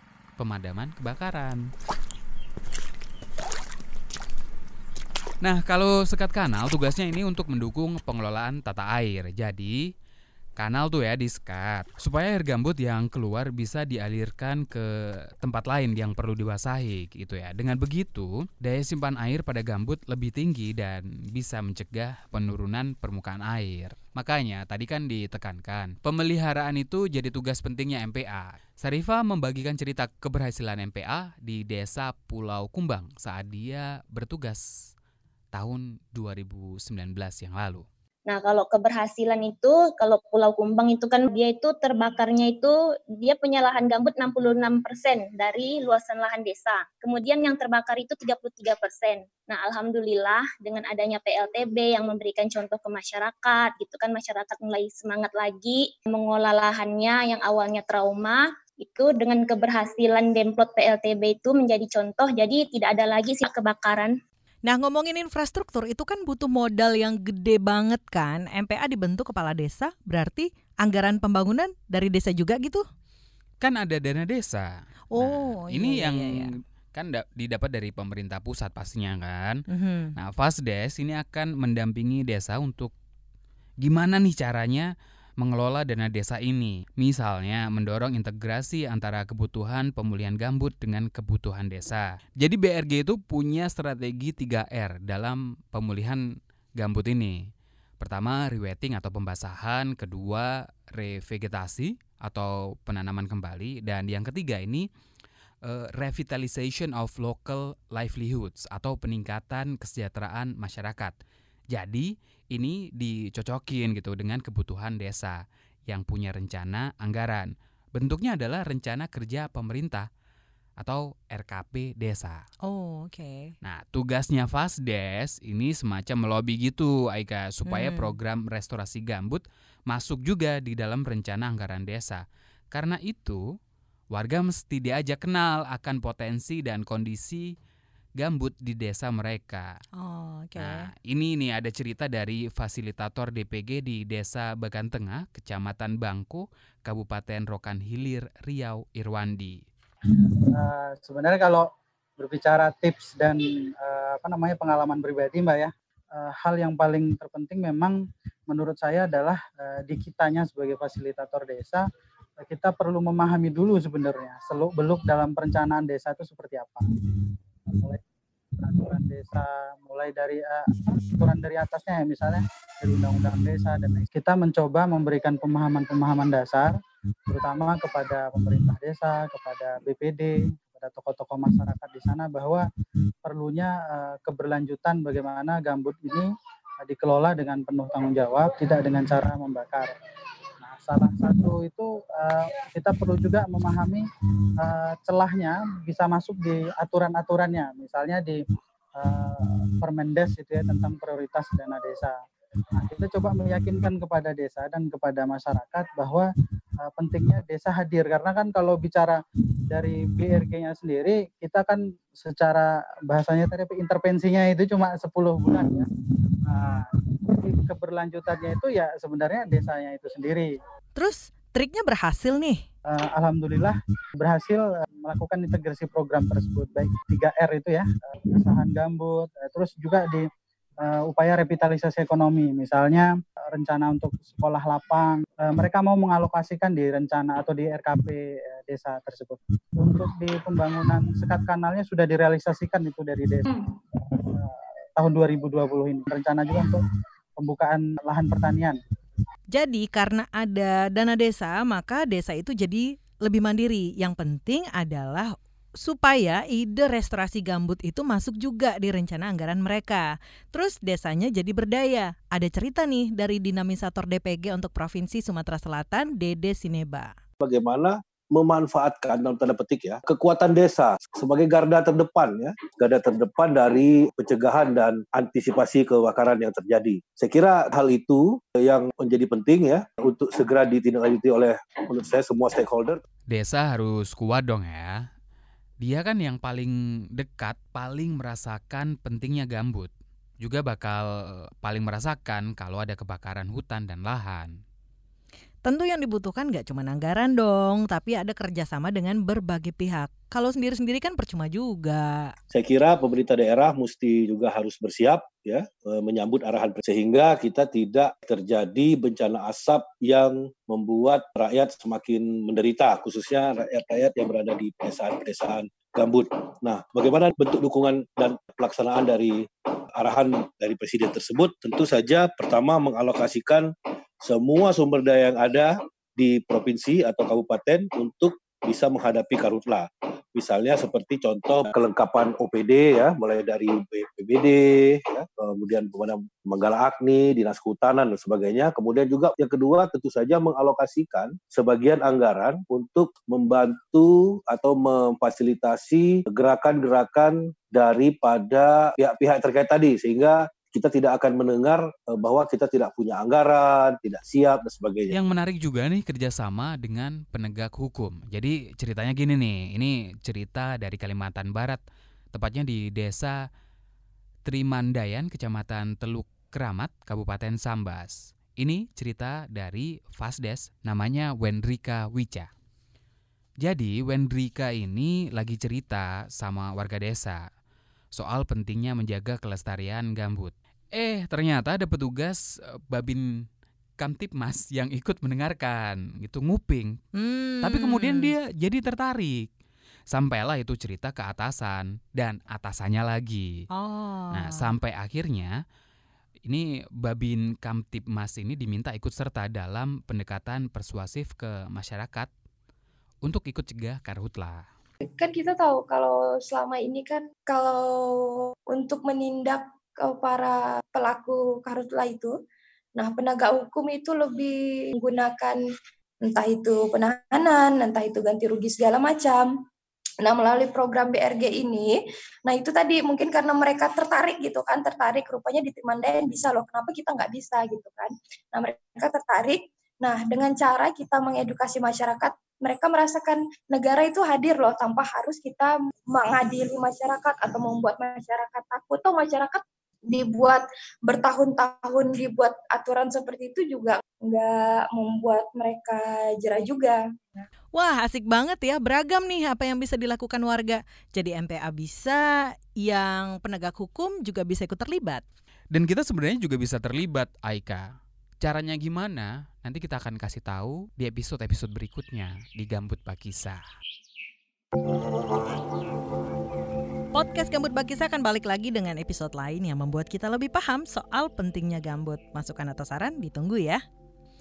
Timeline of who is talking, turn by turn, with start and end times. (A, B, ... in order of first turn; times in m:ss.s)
0:00.4-0:01.7 A
0:05.4-0:09.9 A
0:10.6-0:14.9 A
0:15.4-0:34.6 A
0:35.5-0:37.8 A
0:38.3-1:04.2 B
1:04.7-1:12.8 C
1:13.6-1:19.6 A
1:15.1-1:16.5 C
1:19.7-1:20.1 C
1:20.2-1:22.9 A
1:23.8-1:36.2 A
1:36.8-1:37.4 A
1:38.0-1:44.9 A
1:45.6-1:51.2 A
1:51.7-2:00.1 A
2:00.8-2:02.4 A
2:02.6-2:03.5 C
2:03.6-2:13.4 A
2:07.7-2:08.2 C
2:14.1-2:17.5 A
2:18.2-2:19.8 A
2:20.0-2:20.9 C
2:20.6-2:29.6 A
2:30.5-2:31.7 D
2:32.2-2:41.8 D
2:42.4-2:46.8 D
2:47.7-2:48.0 D
2:48.6-2:56.7 D
2:57.3-3:02.6 D
3:03.2-3:06.3 D
3:06.8-3:09.9 D
3:10.6-3:14.0 D
3:14.6-3:18.4 D
3:19.0-3:22.2 D
3:22.8-3:26.3 D
3:26.8-3:35.9 D
3:36.5-3:40.5 D
3:41.0-3:42.6 C
3:42.9-3:50.2 D
3:50.8-4:03.4 D
4:03.5-4:03.8 E
4:04.2-4:06.8 D
4:07.4-4:08.8 D
4:09.5-4:27.1 C
4:27.4-4:43.0 F
4:43.3-4:45.1 A
4:45.8-4:54.6 A
4:55.6-5:02.4 C
5:02.5-5:19.5 F
5:20.0-5:23.7 F
5:24.2-5:55.2 F
5:55.1-6:01.8 A
6:02.3-6:03.4 A
6:04.4-6:12.5 A
6:13.6-6:17.4 A
6:18.1-6:23.5 A
6:24.0-6:27.0 A
6:27.2-6:28.3 C
6:27.6-6:29.5 A
6:30.1-6:33.6 A
6:33.7-6:34.7 C
6:34.3-6:35.5 A
6:36.4-6:42.3 A
6:43.2-6:44.7 A
6:45.0-6:52.4 E
6:53.0-6:55.6 E
6:56.2-6:59.6 E
7:00.2-7:27.5 E
7:27.8-7:35.2 C
7:35.7-7:43.6 A
7:47.1-7:53.8 C